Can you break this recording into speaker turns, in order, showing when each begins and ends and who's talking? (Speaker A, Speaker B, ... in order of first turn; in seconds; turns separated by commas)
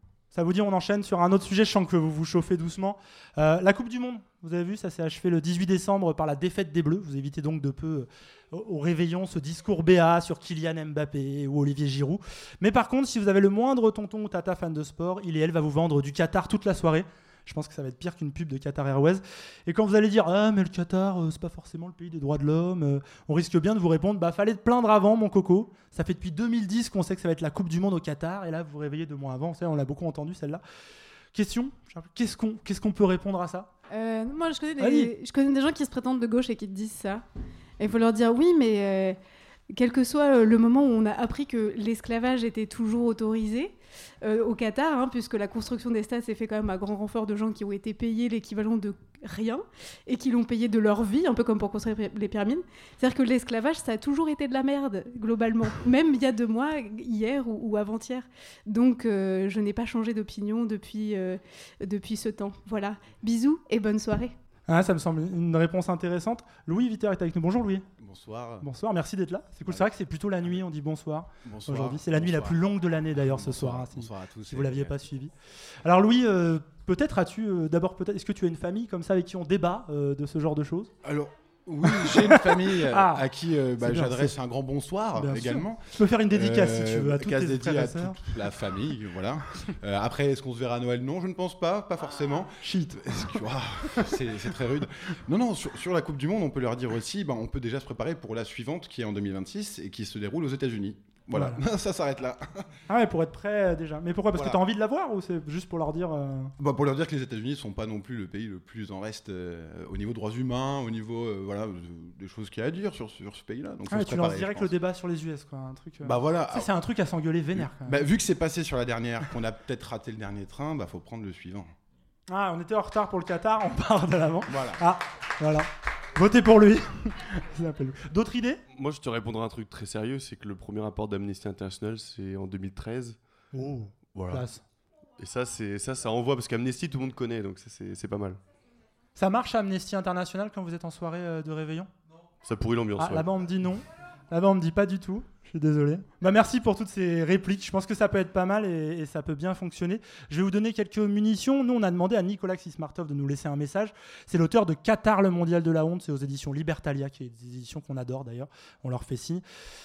Speaker A: 0.3-30.6, Speaker A: 31.3-33.7, Speaker B: 33.9-37.2, Speaker A: 34.8-35.1, Speaker B: 37.8-39.2, Speaker B: 39.7-64.3, Speaker A: 64.7-67.8, Speaker C: 68.0-68.6, Speaker A: 68.6-80.9, Speaker C: 69.6-70.6, Speaker C: 71.4-72.6, Speaker C: 73.1-74.9, Speaker C: 81.0-102.7, Speaker A: 81.8-83.2, Speaker A: 83.8-84.3, Speaker A: 85.2-88.3, Speaker A: 92.6-93.4, Speaker A: 101.3-101.6, Speaker A: 102.9-106.5, Speaker C: 106.6-114.7, Speaker A: 113.9-118.0, Speaker C: 116.0-116.7, Speaker C: 117.5-121.7, Speaker A: 122.3-128.6, Speaker C: 124.5-124.8, Speaker D: 128.7-133.2, Speaker A: 133.5-134.6, Speaker D: 134.1-134.4, Speaker D: 135.2-138.4, Speaker A: 139.2-141.9, Speaker D: 142.4-143.2, Speaker A: 143.0-159.4